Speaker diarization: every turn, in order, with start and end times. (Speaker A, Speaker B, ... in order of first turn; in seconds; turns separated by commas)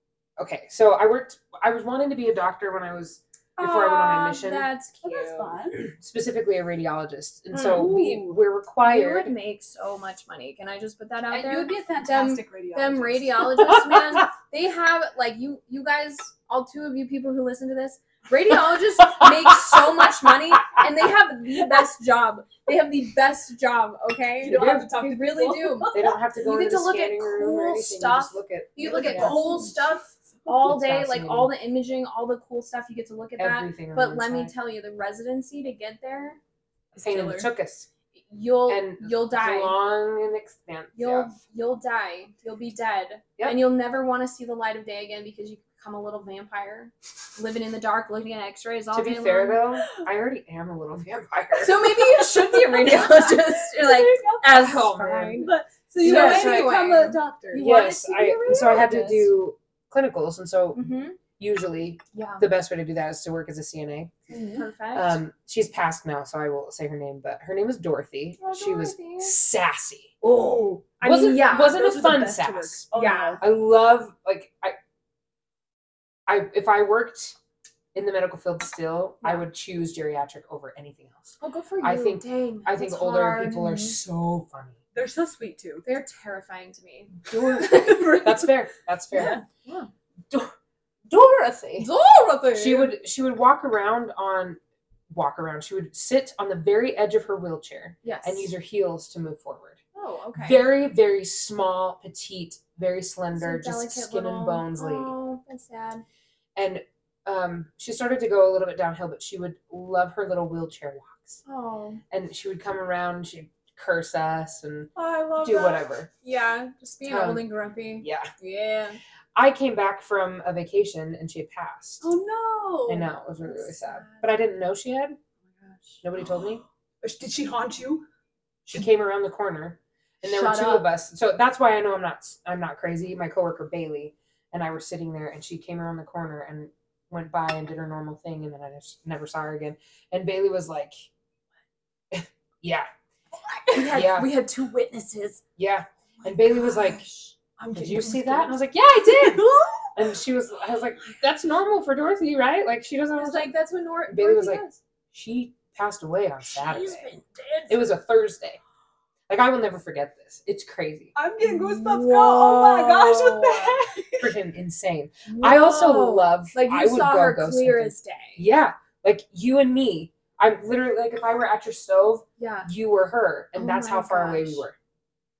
Speaker A: 0.4-4.7, Speaker B: 3.6-5.6, Speaker C: 5.0-5.9, Speaker A: 5.8-9.3, Speaker B: 7.5-8.2, Speaker C: 7.7-8.3, Speaker B: 8.8-36.4, Speaker C: 11.3-13.6, Speaker A: 19.2-19.8, Speaker C: 24.4-26.1, Speaker A: 24.5-24.9, Speaker A: 25.9-29.4, Speaker C: 28.8-30.0, Speaker A: 30.6-31.5, Speaker A: 33.4-34.5, Speaker C: 36.9-37.5, Speaker A: 37.0-37.9, Speaker B: 38.3-39.8, Speaker A: 38.7-41.3, Speaker B: 41.0-49.6, Speaker A: 48.9-52.3, Speaker B: 51.6-59.3, Speaker C: 52.8-57.9, Speaker A: 54.5-55.5, Speaker A: 56.0-56.8, Speaker A: 57.5-64.1, Speaker B: 60.7-61.2, Speaker B: 62.1-62.4, Speaker C: 64.3-64.6, Speaker B: 64.5-65.2, Speaker A: 64.9-70.2, Speaker B: 68.4-69.3, Speaker C: 70.4-70.8, Speaker A: 70.8-72.8, Speaker B: 71.0-72.0, Speaker C: 71.3-73.4, Speaker B: 72.9-73.4, Speaker A: 73.4-74.8, Speaker A: 76.3-77.3, Speaker A: 77.9-84.8, Speaker B: 81.4-84.0, Speaker C: 84.9-85.8, Speaker B: 85.8-88.3, Speaker C: 87.3-88.5, Speaker A: 88.2-89.4, Speaker B: 89.1-89.9, Speaker C: 89.1-89.4, Speaker A: 91.1-91.9, Speaker B: 91.8-92.9, Speaker A: 92.5-94.6, Speaker A: 95.1-99.8, Speaker B: 98.0-98.5, Speaker B: 99.9-100.7, Speaker A: 100.4-105.1, Speaker B: 103.3-106.0, Speaker A: 106.5-111.4, Speaker B: 111.4-112.0, Speaker A: 112.1-116.1, Speaker B: 115.0-119.0, Speaker A: 117.0-117.5, Speaker A: 118.0-118.3, Speaker A: 119.3-122.1, Speaker C: 122.0-123.1, Speaker A: 122.9-125.2, Speaker B: 123.5-124.3, Speaker B: 125.6-126.0, Speaker A: 126.0-126.6, Speaker C: 127.0-128.1, Speaker A: 128.7-141.0, Speaker B: 130.2-130.9, Speaker A: 142.1-142.9, Speaker B: 143.7-145.4, Speaker A: 143.9-144.3, Speaker A: 145.6-147.1, Speaker B: 146.2-147.3, Speaker C: 147.6-150.0, Speaker A: 147.7-153.5, Speaker B: 153.1-154.8, Speaker A: 154.1-157.1, Speaker B: 156.4-157.8, Speaker A: 157.7-158.6, Speaker A: 159.3-161.1, Speaker C: 161.1-164.3, Speaker B: 161.4-163.8, Speaker A: 164.2-174.8, Speaker B: 165.2-168.4, Speaker B: 172.4-172.7, Speaker B: 173.5-174.6